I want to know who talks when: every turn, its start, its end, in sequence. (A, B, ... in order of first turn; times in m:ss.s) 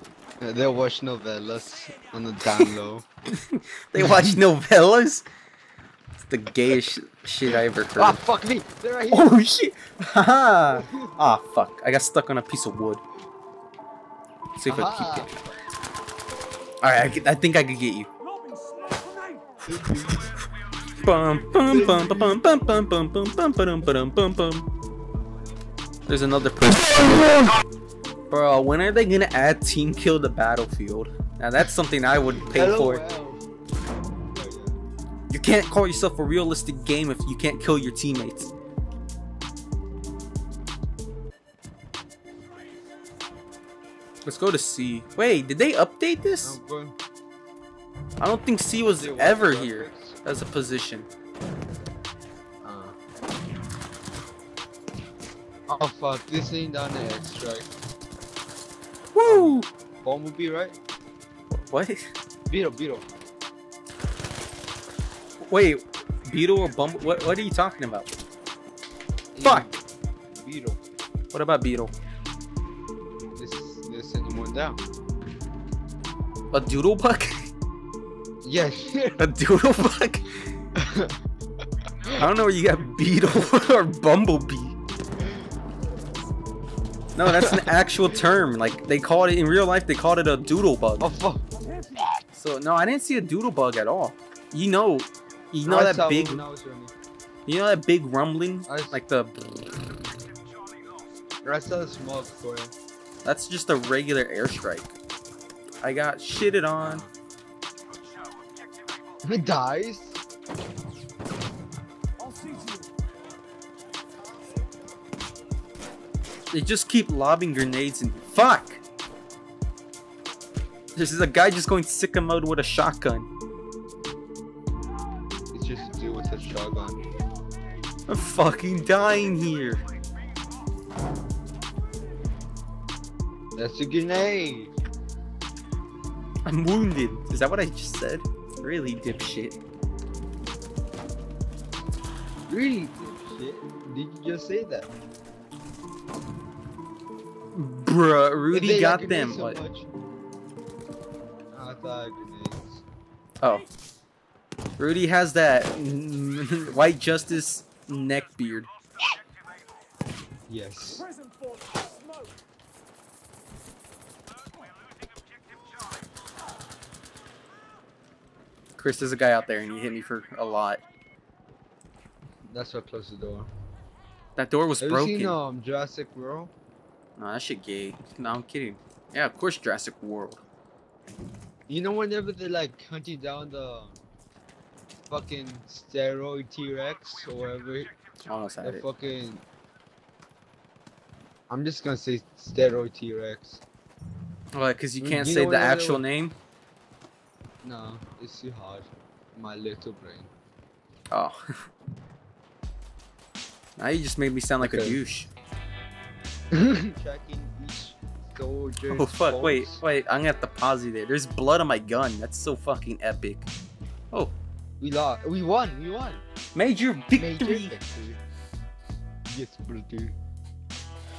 0:00.4-0:03.0 A
0:03.3-0:05.2 B
0:04.0-0:04.4 A
0:06.2-0:08.2 B
0:07.5-0:09.4 A
0:09.1-0:13.0 B
0:10.7-0:11.2 A
0:14.6-0:15.4 B
0:14.7-0:15.3 A
0:16.8-0:18.1 B
0:19.6-0:20.3 A
0:19.8-0:20.3 B
0:20.9-0:24.7 B
0:21.7-0:22.6 A
0:26.1-0:27.5 B
0:28.3-0:33.0 B
0:32.2-0:33.4 A
0:34.3-0:34.8 A
0:35.3-0:38.5 B
0:44.2-0:46.6 B
0:46.4-0:46.9 A
0:48.2-0:51.1 B
0:48.9-0:50.2 A
0:52.6-0:52.9 A
0:55.7-0:57.7 A
0:59.1-0:59.7 B
0:59.2-1:00.8 A
1:01.5-1:02.0 B
1:02.5-1:03.1 A
1:05.5-1:08.1 B
1:09.3-1:10.8 A
1:11.3-1:11.9 B
1:13.3-1:14.8 A
1:16.5-1:17.5 B
1:18.4-1:19.2 A
1:19.2-1:20.3 B
1:20.8-1:21.2 A
1:22.1-1:24.8 B
1:27.1-1:31.1 B
1:27.4-1:27.6 A
1:31.0-1:32.0 A
1:32.3-1:36.4 B
1:35.6-1:36.9 A
1:37.4-1:39.8 B
1:38.7-1:39.0 A
1:41.4-1:42.7 A
1:43.2-1:44.9 B
1:45.8-1:47.0 B
1:46.8-1:47.1 A
1:49.2-1:50.2 A
1:56.5-1:58.8 B
2:00.9-2:03.3 B
2:05.5-2:07.0 A
2:08.1-2:09.8 B
2:13.6-2:14.7 A
2:16.4-2:19.6 B
2:22.5-2:24.9 A
2:27.5-2:29.6 B
2:28.5-2:29.9 A
2:31.5-2:32.8 A
2:33.4-2:33.7 B
2:34.8-2:38.7 B
2:40.5-2:41.1 A
2:48.8-2:50.8 B
2:52.5-2:53.5 A
2:54.4-2:55.4 B
2:54.8-2:56.5 A
2:57.2-3:00.4 B
3:01.7-3:04.0 A
3:05.1-3:07.9 A
3:08.2-3:08.8 B
3:08.6-3:09.4 A
3:11.5-3:13.6 A
3:14.5-3:16.3 B
3:15.0-3:16.0 A
3:17.6-3:20.3 A
3:21.1-3:21.4 B
3:23.8-3:25.3 B
3:24.6-3:25.0 A
3:26.5-3:29.8 A
3:28.9-3:33.5 B
3:34.8-3:36.2 A
3:36.5-3:37.8 B
3:37.2-3:38.2 A
3:39.3-3:40.2 A